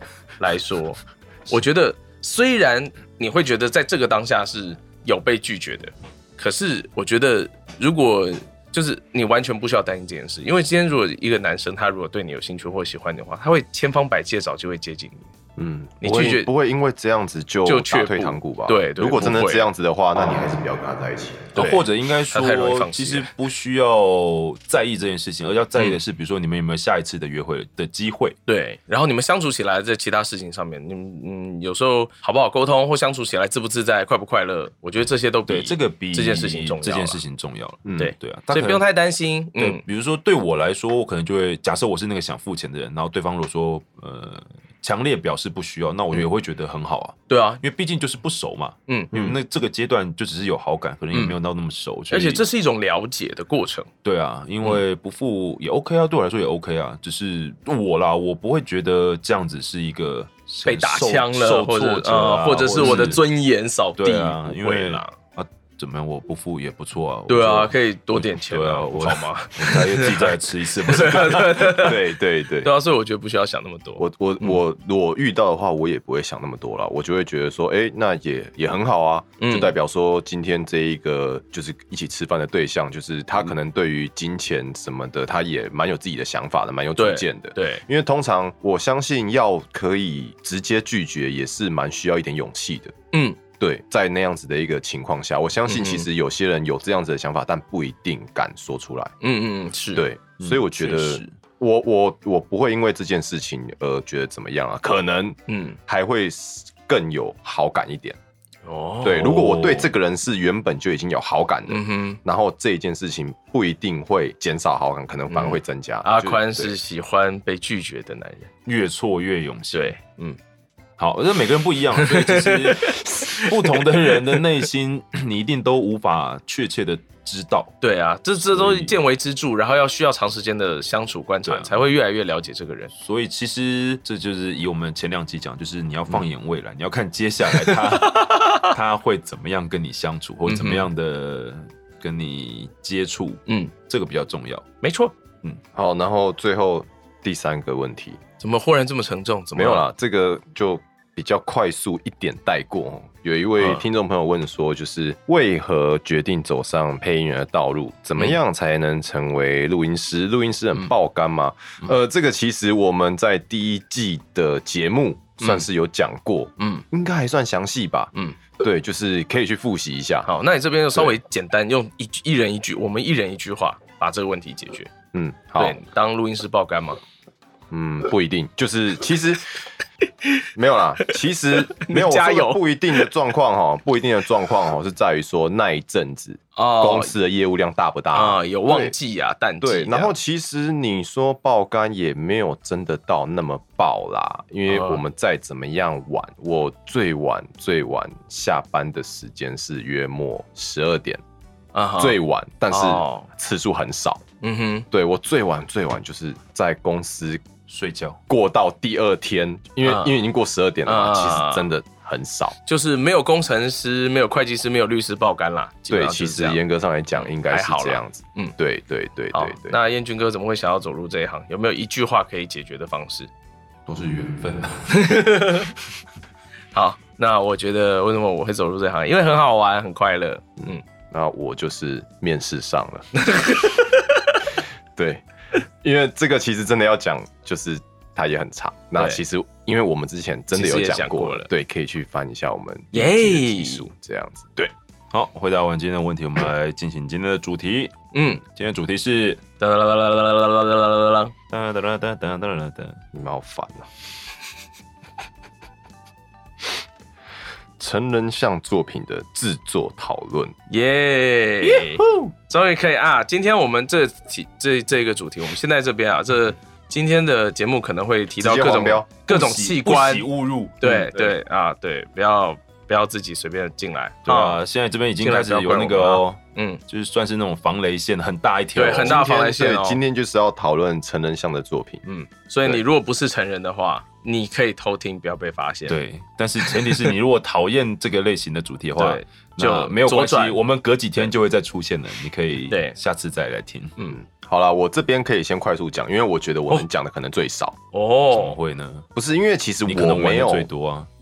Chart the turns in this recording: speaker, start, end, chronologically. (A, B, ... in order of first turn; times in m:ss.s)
0:00.4-0:15.3 A
0:15.6-0:21.6 B
0:16.0-0:16.5 A
0:17.6-0:19.7 A
0:21.6-0:23.3 A
0:21.6-0:28.4 C
0:28.5-0:37.2 A
0:35.5-0:38.8 C
0:37.8-0:38.1 B
0:38.0-0:39.8 A
0:39.6-0:52.4 C
0:47.3-0:47.6 A
0:48.9-0:49.3 A
0:52.1-0:53.9 A
0:54.0-1:03.2 C
1:00.6-1:05.1 A
1:04.0-1:11.7 C
1:07.3-1:12.1 A
1:11.8-1:12.7 B
1:12.6-1:14.6 A
1:14.0-1:32.9 B
1:19.4-1:19.8 A
1:27.0-1:27.8 A
1:33.1-1:33.4 A
1:33.6-1:39.1 B
1:35.7-1:36.1 A
1:39.2-1:40.0 A
1:40.0-1:48.2 B
1:40.4-1:41.3 C
1:45.5-1:45.8 A
1:48.6-1:49.3 A
1:49.0-1:56.8 B
1:49.2-1:49.9 C
1:51.7-1:52.2 A
1:55.3-1:58.5 A
1:58.7-1:59.9 C
1:59.7-2:00.4 A
2:01.0-2:07.8 C
2:02.0-2:04.4 A
2:07.8-2:12.9 A
2:08.4-2:08.9 C
2:11.4-2:11.8 C
2:12.9-2:24.6 C
2:17.5-2:18.7 A
2:20.5-2:20.9 A
2:23.5-2:23.7 A
2:24.8-2:25.1 A
2:25.7-2:28.2 B
2:28.4-2:29.8 A
2:29.6-2:50.3 B
2:33.6-2:33.8 A
2:45.4-2:45.6 A
2:46.6-2:46.8 A
2:50.2-2:54.9 A
2:55.1-2:55.8 B
2:55.6-2:57.0 A
2:57.7-2:59.5 B
3:00.6-3:09.0 B
3:01.6-3:03.1 A
3:06.6-3:07.1 A
3:08.1-3:10.1 A
3:09.6-3:21.2 B
3:14.7-3:15.0 A
3:21.7-3:22.2 A
3:22.0-3:24.2 B
3:22.7-3:23.3 A
3:24.4-3:24.9 A
3:24.9-3:27.4 B
3:27.7-3:28.2 C
3:28.3-3:32.6 B
3:29.8-3:30.2 A
3:30.9-3:31.7 A
3:32.7-3:36.6 A
3:35.9-3:39.8 B
3:37.2-3:38.6 A
3:39.3-3:43.3 A
3:43.9-3:45.0 C
3:44.9-3:45.7 A
3:46.7-3:50.8 A
3:50.6-3:53.1 B
3:53.2-3:54.4 A
3:55.0-3:55.2 B
3:55.8-4:04.7 B
4:00.5-4:01.5 A
4:02.9-4:03.9 A
4:05.1-4:09.4 C
4:08.1-4:08.4 A
4:09.6-4:11.3 A
4:11.5-4:13.0 C
4:13.1-4:13.9 B
4:17.8-4:20.6 B
4:20.7-4:30.3 A
4:21.6-4:22.3 C
4:28.4-4:29.1 B
4:29.3-4:31.4 C
4:30.8-4:34.6 A
4:34.3-4:39.2 C
4:35.2-4:36.8 A
4:38.8-4:40.0 A
4:39.0-4:42.0 B
4:42.0-4:46.0 A
4:45.9-4:54.0 C
4:46.6-4:47.1 A
4:49.0-4:50.6 A
4:52.7-4:53.0 A
4:54.2-4:57.8 B
4:57.9-4:58.6 A
4:58.3-4:59.1 C
4:59.2-5:00.7 B
4:59.8-5:01.1 C